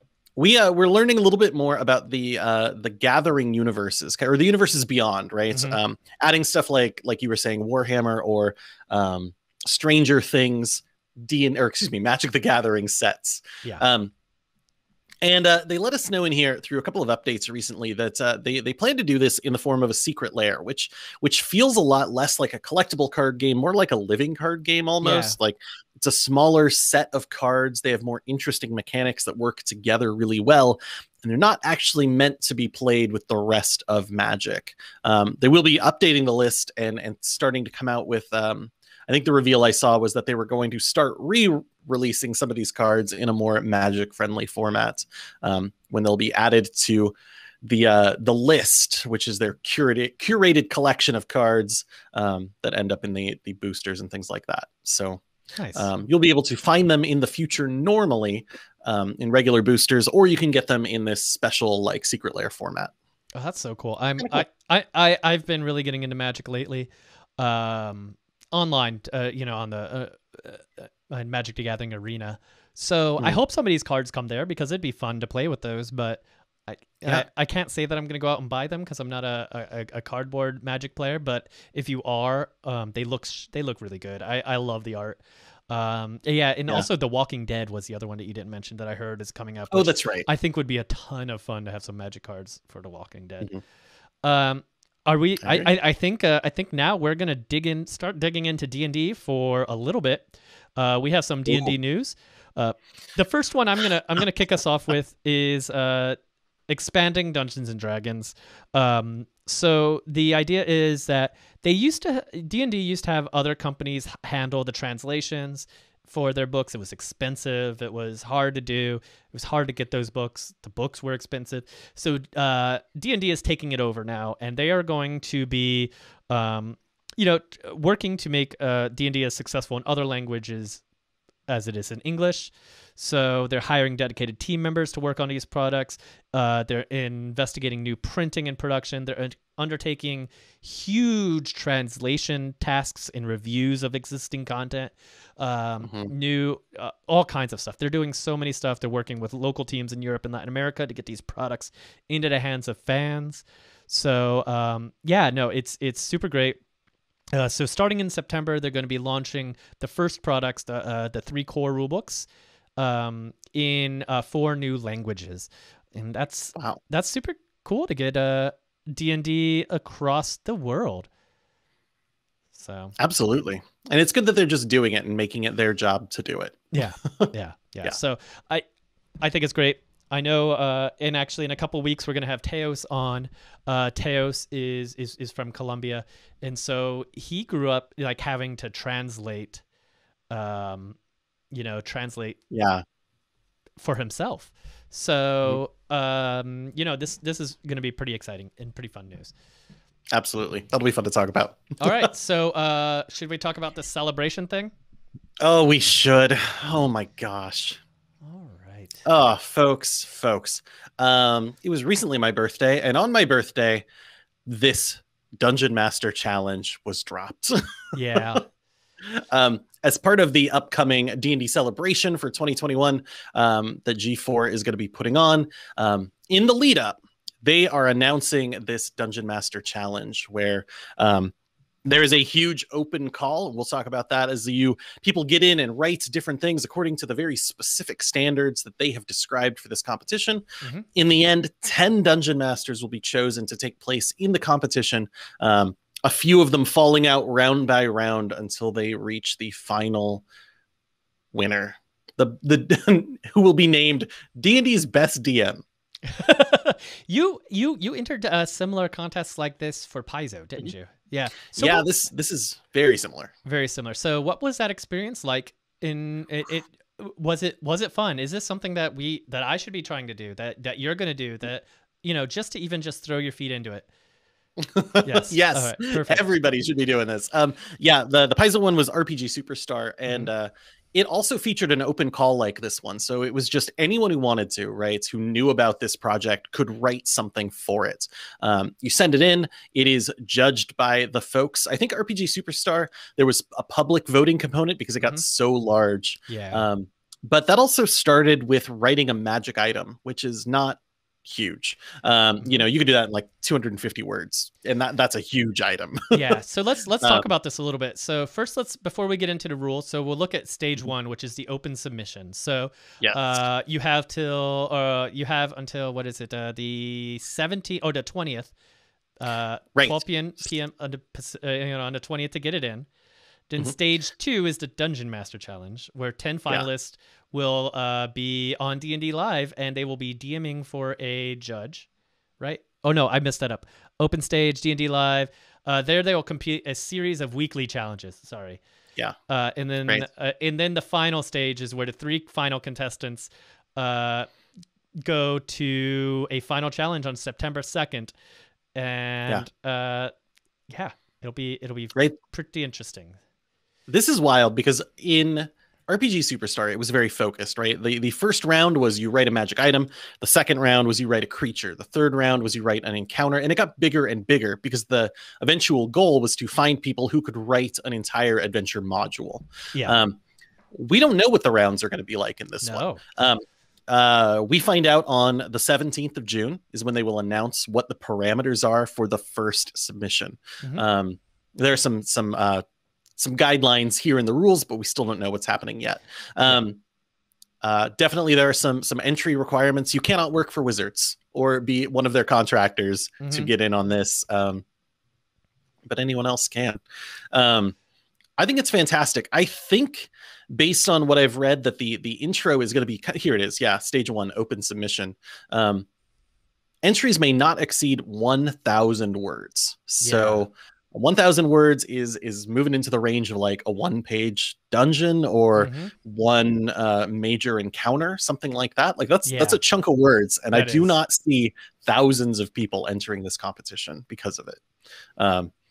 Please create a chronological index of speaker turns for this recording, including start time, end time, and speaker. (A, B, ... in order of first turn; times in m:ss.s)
0:00.4-0:14.1 A
0:05.5-0:05.8 B
0:15.2-0:55.2 A
0:25.0-0:25.4 B
0:55.6-0:55.9 B
0:55.7-1:02.9 A
1:03.3-1:25.2 B
1:25.7-1:33.5 B
1:29.7-1:30.2 A
1:34.2-1:46.2 B
1:35.4-1:35.7 A
1:41.5-1:41.7 A
1:46.7-2:10.8 B
2:11.5-2:36.6 B
2:25.8-2:26.1 A
2:37.3-2:51.1 B
2:52.5-2:52.9 B
2:53.0-2:57.3 A
2:56.7-2:58.6 B
2:59.2-3:09.6 B
3:10.3-3:11.0 B
3:11.5-3:12.4 B
3:12.5-3:12.8 A
3:13.8-3:19.3 B
3:20.1-3:22.1 A
3:21.8-3:24.7 B
3:25.4-3:27.8 A
3:28.2-3:29.0 B
3:29.0-3:33.8 A
3:34.4-3:38.4 A
3:37.9-3:38.4 B
3:39.0-3:51.3 A
3:51.8-4:10.2 A
4:11.3-4:15.6 A
4:16.1-4:21.9 B
4:21.5-4:23.3 A
4:23.4-4:33.9 B
4:34.6-5:06.3 A
4:35.0-4:36.2 B
4:56.3-4:56.6 B
5:06.1-5:18.5 B
5:07.0-5:07.2 A
5:19.2-5:22.9 B
5:23.5-5:31.9 B
5:32.4-5:38.6 B
5:39.3-5:44.3 B
5:45.0-5:48.1 B
5:48.7-5:50.1 B
5:50.7-5:53.2 B
5:53.9-6:10.2 A
6:09.7-6:10.0 B
6:10.7-6:22.6 A
6:12.6-6:13.0 B
6:23.2-6:26.8 A
6:27.6-6:34.6 A
6:33.2-6:33.5 B
6:35.8-6:36.8 A
6:37.3-6:37.8 A
6:38.4-6:45.9 A
6:46.8-7:04.6 A
6:50.0-6:50.4 B
6:55.6-6:55.9 B
6:59.3-6:59.6 B
7:00.5-7:00.9 B
7:05.2-7:05.5 A